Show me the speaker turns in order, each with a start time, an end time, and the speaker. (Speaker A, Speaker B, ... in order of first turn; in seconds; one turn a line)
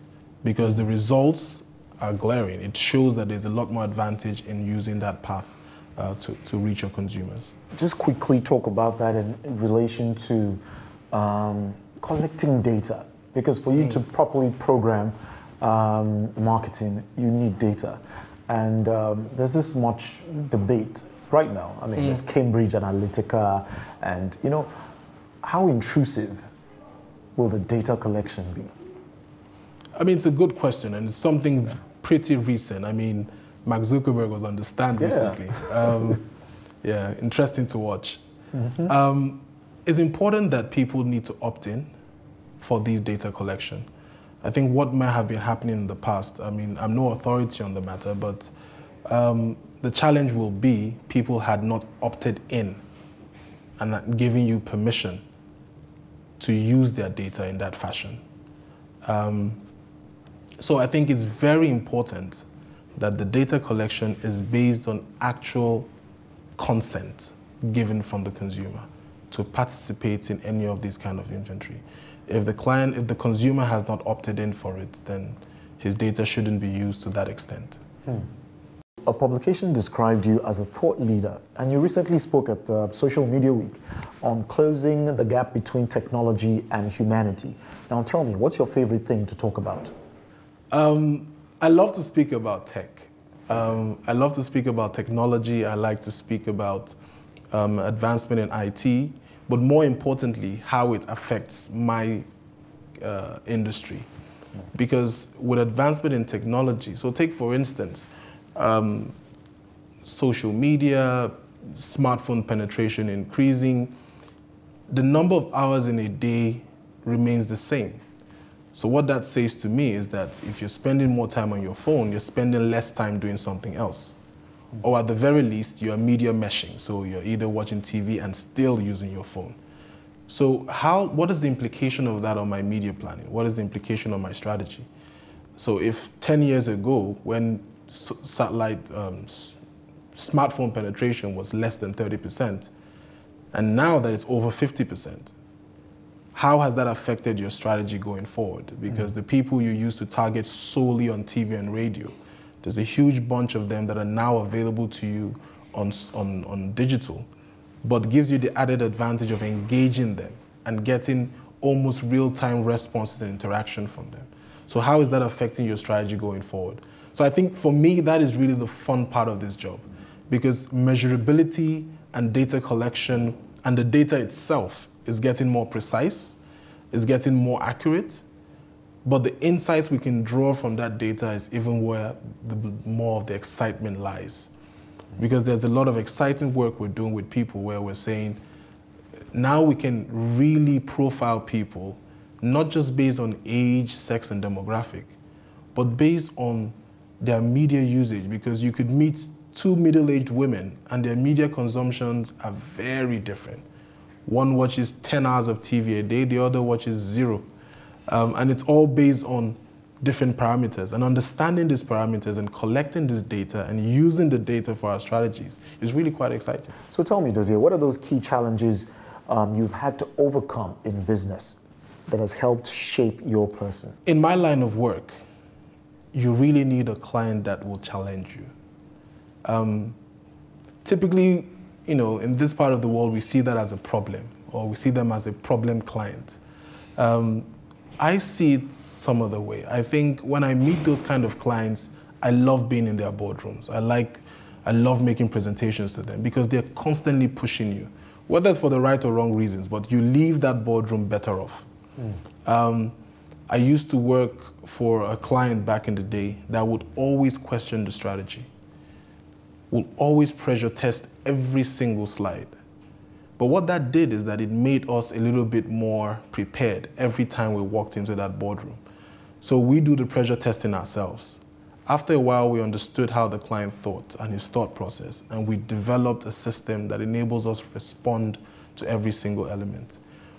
Speaker A: 0.4-7.5
Speaker B: 7.7-24.7
Speaker B: 25.4-26.4
Speaker B: 27.4-28.7
Speaker A: 30.0-36.2
Speaker B: 35.0-36.1
Speaker A: 36.8-38.2
Speaker B: 38.5-38.9
Speaker A: 38.9-41.9
Speaker A: 42.6-43.9
Speaker A: 44.4-48.5
Speaker A: 49.0-52.8
Speaker A: 53.8-55.2
Speaker A: 56.4-58.2
Speaker A: 59.0-59.6
Speaker A: 60.6-62.4
Speaker A: 63.0-65.9
Speaker A: 66.6-77.8
Speaker B: 79.0-89.9
Speaker A: 90.7-97.0
Speaker A: 97.5-102.3
Speaker A: 103.0-104.1
Speaker A: 104.7-109.2
Speaker A: 110.0-114.0
Speaker A: 114.9-118.0
Speaker A: 118.7-124.2
Speaker A: 124.8-129.6
Speaker A: 130.3-134.9
Speaker A: 135.6-139.6
Speaker A: 140.2-142.7
Speaker A: 143.5-145.3
Speaker A: 146.3-157.3
Speaker A: 157.8-176.4
Speaker A: 176.9-178.2
Speaker A: 179.1-184.5
Speaker A: 185.2-188.4
Speaker A: 189.3-195.1
Speaker A: 195.8-203.7
Speaker A: 204.2-207.5
Speaker A: 208.1-216.7
Speaker B: 216.9-224.0
Speaker A: 224.1-225.2
Speaker A: 226.1-228.5
Speaker A: 229.4-230.0
Speaker A: 230.8-236.4
Speaker A: 237.0-251.7
Speaker A: 252.4-252.9
Speaker A: 253.5-258.5
Speaker A: 259.7-262.5
Speaker A: 263.4-268.8
Speaker A: 269.4-280.0